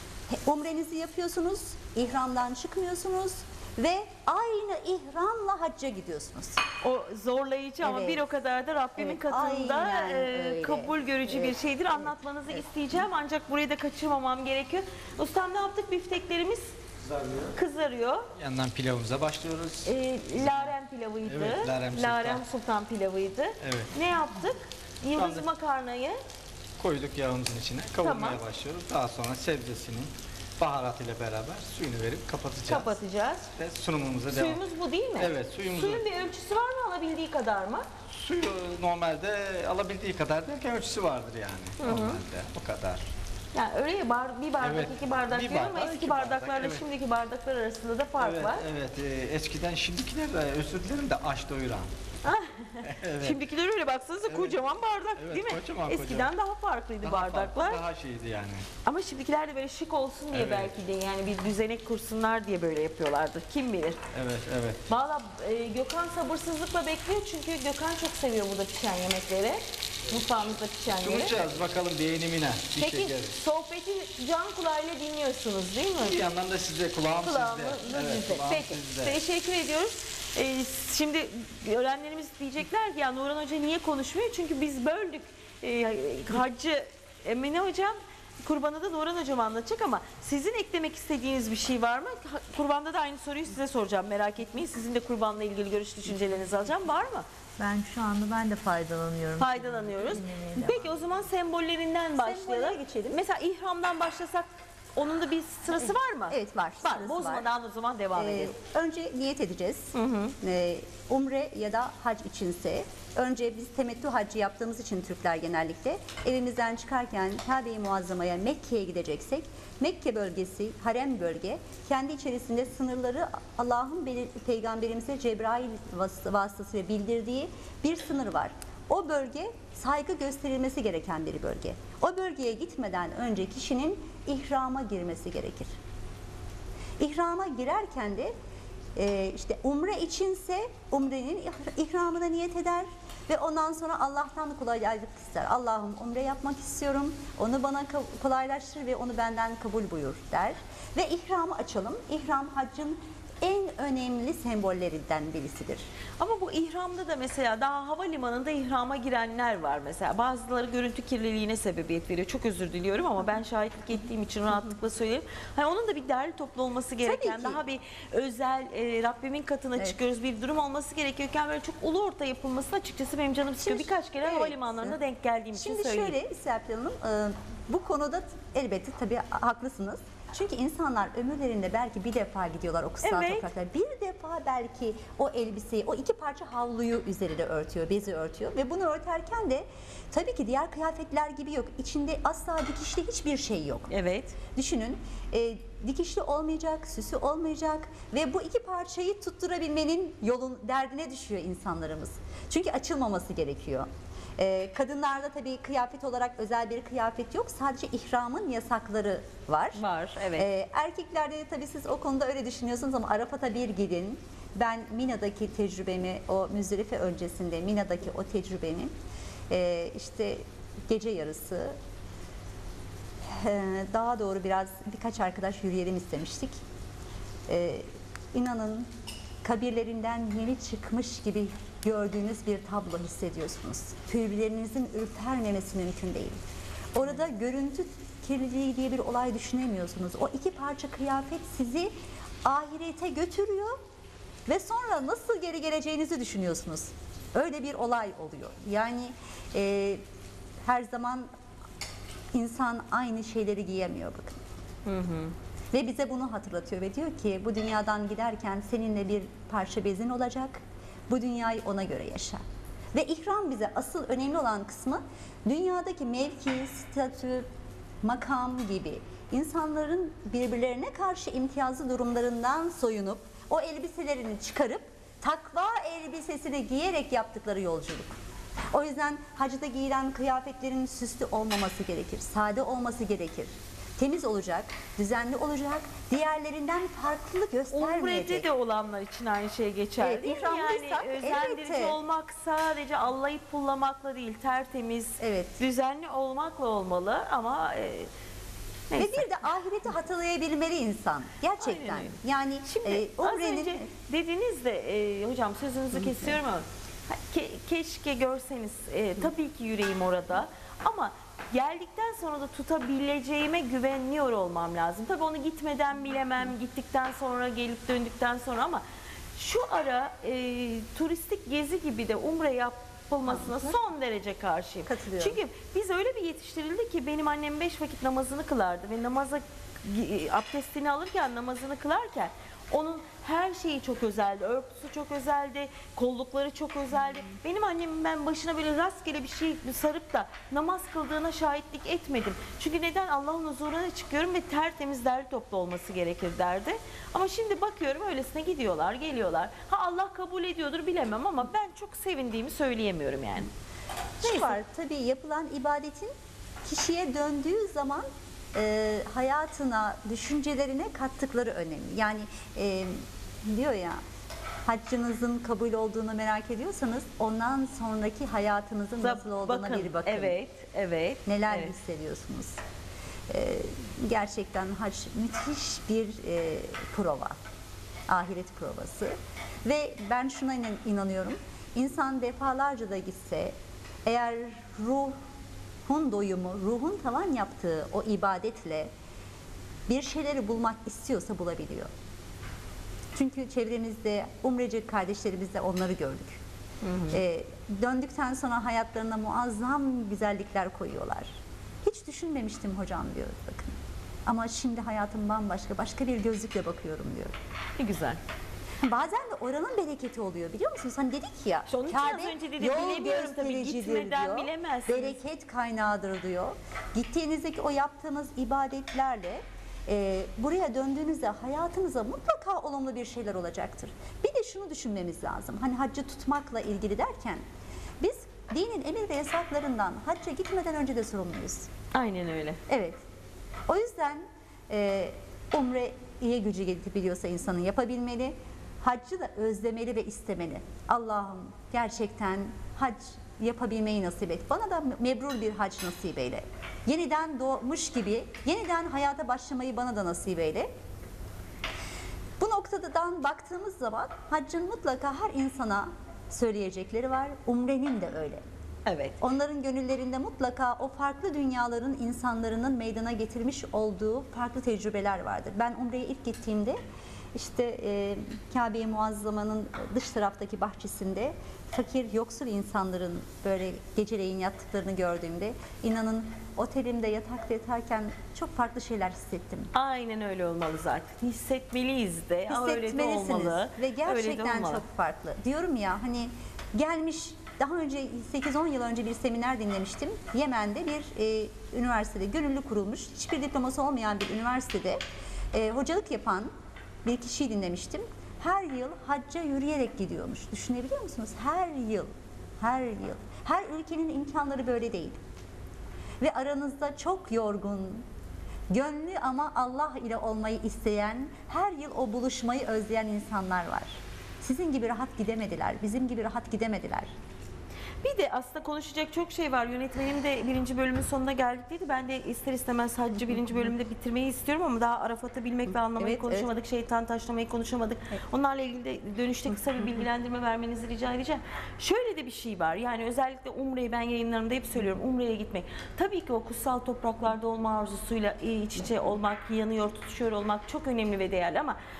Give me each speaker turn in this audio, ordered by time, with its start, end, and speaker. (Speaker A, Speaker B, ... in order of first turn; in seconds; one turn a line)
Speaker A: 0.3-6.6
Speaker B: 6.8-16.7
Speaker A: 7.8-8.3
Speaker A: 8.9-11.6
Speaker C: 17.1-17.5
Speaker B: 17.5-18.3
Speaker C: 18.4-20.7
Speaker B: 19.8-26.2
Speaker C: 21.2-22.4
Speaker C: 23.6-23.9
Speaker C: 25.1-25.4
Speaker C: 26.8-32.9
Speaker B: 28.0-28.4
Speaker B: 32.7-33.5
Speaker C: 33.5-34.6
Speaker B: 34.3-37.9
Speaker C: 35.2-36.0
Speaker C: 38.1-43.1
Speaker B: 41.8-42.2
Speaker B: 43.5-48.6
Speaker C: 44.6-46.8
Speaker C: 48.2-51.9
Speaker B: 52.2-57.8
Speaker C: 52.8-53.4
Speaker C: 54.3-54.6
Speaker C: 55.1-56.3
Speaker C: 57.0-58.7
Speaker B: 58.8-64.0
Speaker C: 60.3-60.7
Speaker C: 64.1-64.8
Speaker B: 64.9-71.5
Speaker C: 70.8-73.3
Speaker B: 72.8-76.3
Speaker C: 76.0-79.2
Speaker B: 77.2-97.2
Speaker D: 97.6-101.0
Speaker B: 99.4-108.5
Speaker A: 102.2-103.2
Speaker A: 106.3-107.5
Speaker A: 108.1-135.7
Speaker B: 109.9-110.3
Speaker A: 137.0-138.3
Speaker A: 138.9-155.9
Speaker B: 156.2-176.1
Speaker A: 167.0-167.6
Speaker A: 173.6-175.0
Speaker A: 175.5-193.9
Speaker B: 183.0-183.4
Speaker B: 193.9-194.4
Speaker A: 194.5-209.8
Speaker B: 209.7-210.5
Speaker A: 210.3-218.9
Speaker A: 219.5-221.8
Speaker A: 223.2-226.6
Speaker A: 227.5-228.9
Speaker A: 229.4-236.4
Speaker A: 236.9-243.8
Speaker A: 244.4-250.0
Speaker A: 250.6-251.3
Speaker A: 252.3-254.4
Speaker B: 254.8-255.3
Speaker A: 255.7-262.4
Speaker A: 262.9-267.5
Speaker A: 268.0-278.2
Speaker A: 278.7-288.5
Speaker B: 287.7-298.1
Speaker A: 290.0-292.0
Speaker A: 295.2-295.6
Speaker B: 298.9-299.3
Speaker A: 299.0-303.9
Speaker B: 301.6-318.8
Speaker B: 319.4-353.5
Speaker A: 323.3-323.6
Speaker A: 324.9-325.4
Speaker A: 354.2-356.1
Speaker B: 354.2-354.6
Speaker A: 356.6-364.0
Speaker A: 364.6-370.4
Speaker B: 369.0-371.7
Speaker A: 371.2-372.6
Speaker A: 373.3-377.4
Speaker A: 378.1-385.2
Speaker A: 385.9-388.9
Speaker A: 389.9-391.9
Speaker A: 393.1-396.4
Speaker B: 396.8-397.2
Speaker A: 397.1-407.3
Speaker B: 407.8-408.2
Speaker A: 408.8-427.4
Speaker B: 411.7-415.2
Speaker A: 428.0-431.7
Speaker B: 431.9-432.6
Speaker A: 432.7-433.0
Speaker A: 433.7-450.7
Speaker A: 452.4-458.4
Speaker B: 458.9-459.2
Speaker A: 459.2-466.8
Speaker A: 467.3-479.7
Speaker B: 479.7-484.8
Speaker A: 482.5-495.0
Speaker A: 495.5-496.5
Speaker A: 497.0-505.2
Speaker A: 506.2-508.1
Speaker A: 508.7-517.1
Speaker B: 518.0-541.8
Speaker A: 526.0-526.5